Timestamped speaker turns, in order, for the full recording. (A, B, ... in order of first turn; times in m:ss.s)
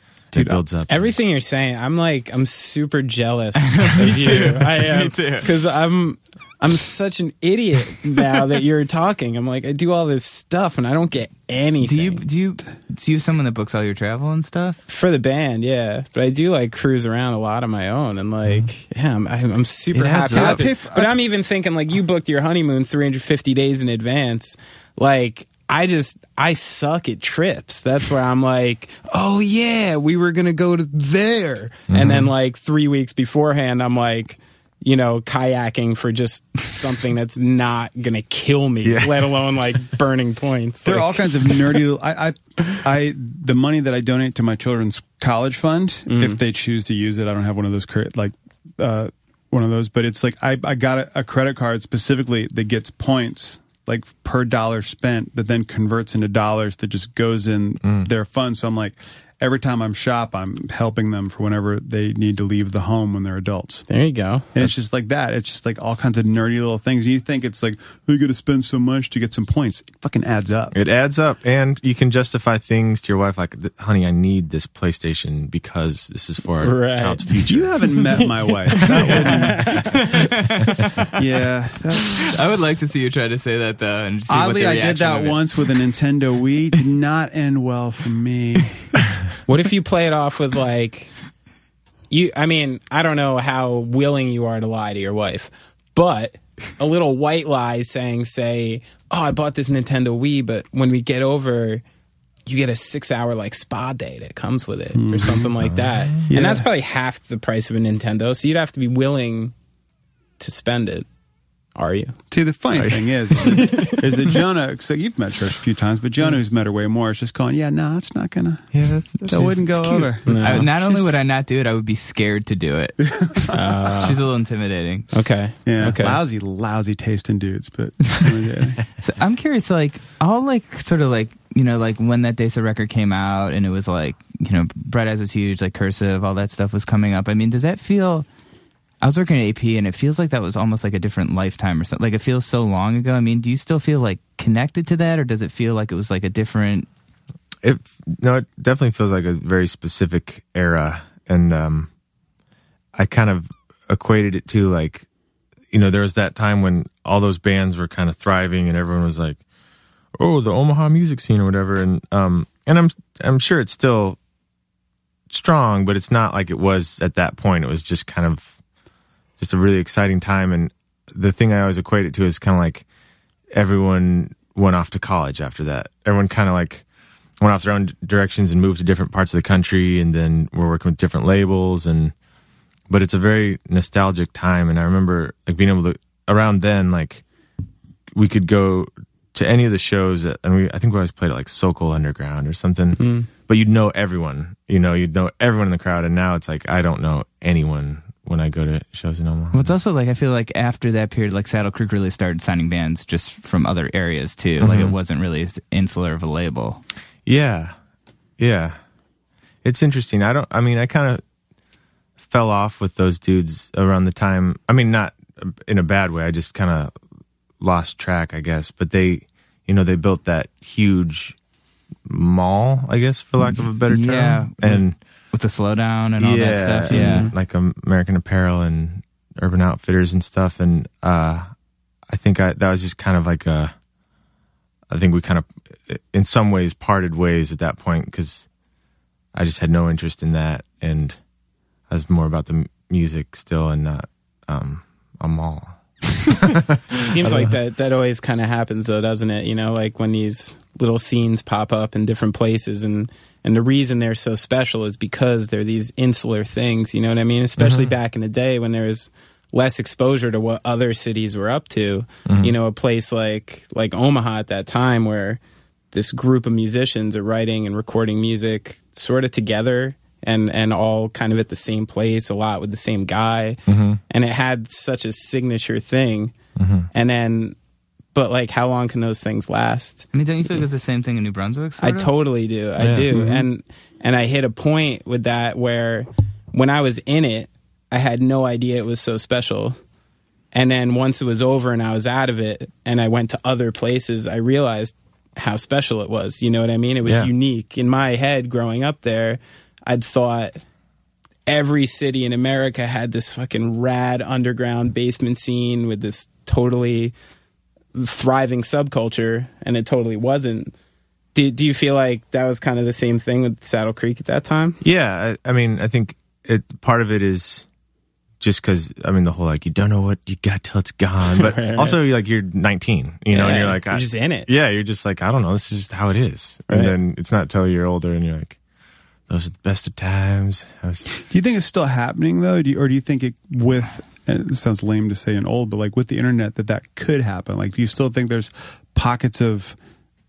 0:00.3-0:01.1 A
0:00.3-0:00.6 B
0:00.9-0:12.2 C
0:03.6-0:05.5 D
0:11.8-0:14.8 D
0:14.9-0:41.3 C
0:19.9-0:20.6 A
0:20.3-0:21.2 B
0:31.9-0:32.3 A
0:38.8-0:39.4 A
0:40.8-1:03.8 B
0:46.1-0:46.4 C
0:57.8-0:58.1 A
1:03.9-1:04.5 C
1:04.5-1:10.7 B
1:10.7-1:18.1 A
1:16.6-1:17.2 C
1:17.4-1:19.8 B
1:18.1-1:20.3 C
1:18.9-1:19.2 A
1:19.9-1:20.8 D
1:21.1-1:22.3 B
1:22.1-1:25.7 D
1:24.3-1:29.0 B
1:29.4-1:31.1 C
1:32.1-1:41.8 C
1:42.5-1:49.5 C
1:44.9-1:45.5 B
1:45.6-1:46.2 A
1:46.3-1:46.6 B
1:50.4-1:51.0 C
1:51.8-1:52.2 C
1:52.3-1:58.7 B
1:52.8-1:53.1 A
1:53.4-1:54.0 C
1:58.7-2:00.0 A
1:59.2-2:01.1 B
1:59.9-2:05.1 D
2:00.2-2:00.7 C
2:03.2-2:03.6 B
2:03.5-2:04.2 C
2:05.1-2:06.2 C
2:05.6-2:08.8 B
2:09.0-2:18.2 D
2:19.0-2:26.9 D
2:27.6-2:31.9 A
2:32.9-2:35.0 A
2:35.7-2:39.4 A
2:40.1-2:44.2 A
2:45.3-2:48.5 A
2:49.4-2:52.8 A
2:53.5-2:56.8 A
2:57.4-3:02.1 A
3:02.9-3:07.2 A
3:08.1-3:19.7 A
3:13.0-3:13.3 C
3:19.5-3:26.8 D
3:24.6-3:25.0 A
3:27.2-3:27.7 A
3:28.4-3:28.8 A
3:29.6-3:31.2 A
3:32.2-3:36.9 A
3:37.6-3:41.4 A
3:42.0-3:45.0 A
3:43.9-3:44.8 D
3:45.3-3:47.3 D
3:46.2-3:51.5 A
3:46.9-3:47.3 C
3:52.1-3:53.7 A
3:54.9-3:58.5 A
3:59.3-4:01.2 A
4:01.9-4:07.6 A
4:06.9-4:25.4 C
4:17.6-4:17.9 A
4:22.2-4:22.5 A
4:25.9-4:36.3 C
4:33.7-4:34.0 A
4:36.6-4:36.9 A
4:36.9-4:37.6 C
4:38.1-4:40.0 C
4:40.1-4:42.1 D
4:41.8-4:49.8 C
4:42.8-4:43.4 A
4:50.5-5:00.6 C
4:57.0-4:57.3 A
5:01.5-5:07.1 C
5:07.9-5:10.7 C
5:11.3-5:14.8 C
5:14.8-5:17.6 A
5:18.4-5:28.6 A
5:21.3-5:22.0 C
5:23.3-5:24.5 C
5:26.7-5:26.9 C
5:29.3-5:31.1 A
5:31.2-5:39.8 B